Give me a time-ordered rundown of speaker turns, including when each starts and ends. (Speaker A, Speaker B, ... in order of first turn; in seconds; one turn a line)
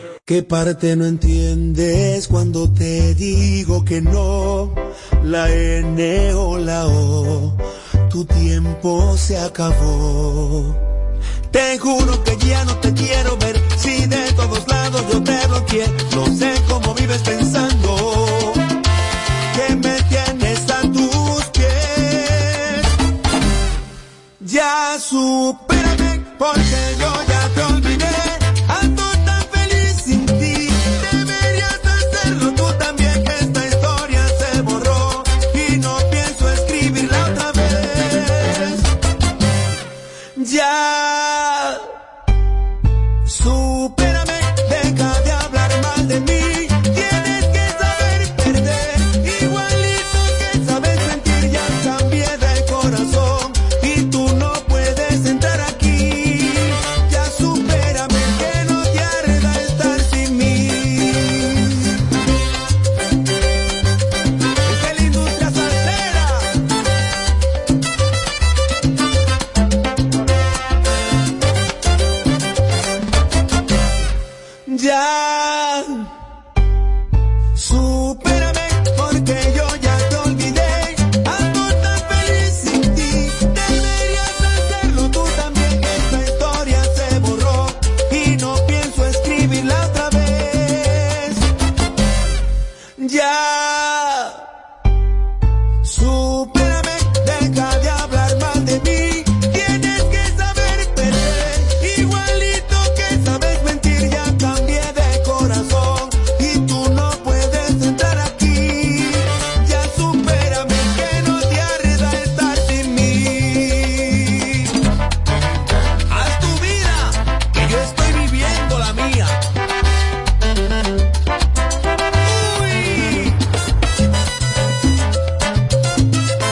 Speaker A: 0.3-10.8
Speaker A: 11.5-18.6
Speaker A: 19.5-22.9
Speaker A: 24.4-38.9
Speaker A: 40.4-41.9
Speaker A: 43.2-61.9
Speaker A: 64.6-66.5
Speaker A: 74.7-76.1
Speaker A: 77.5-91.5
Speaker A: 93.0-94.4
Speaker A: 95.8-114.7
Speaker A: 116.1-119.4
Speaker A: 122.2-123.4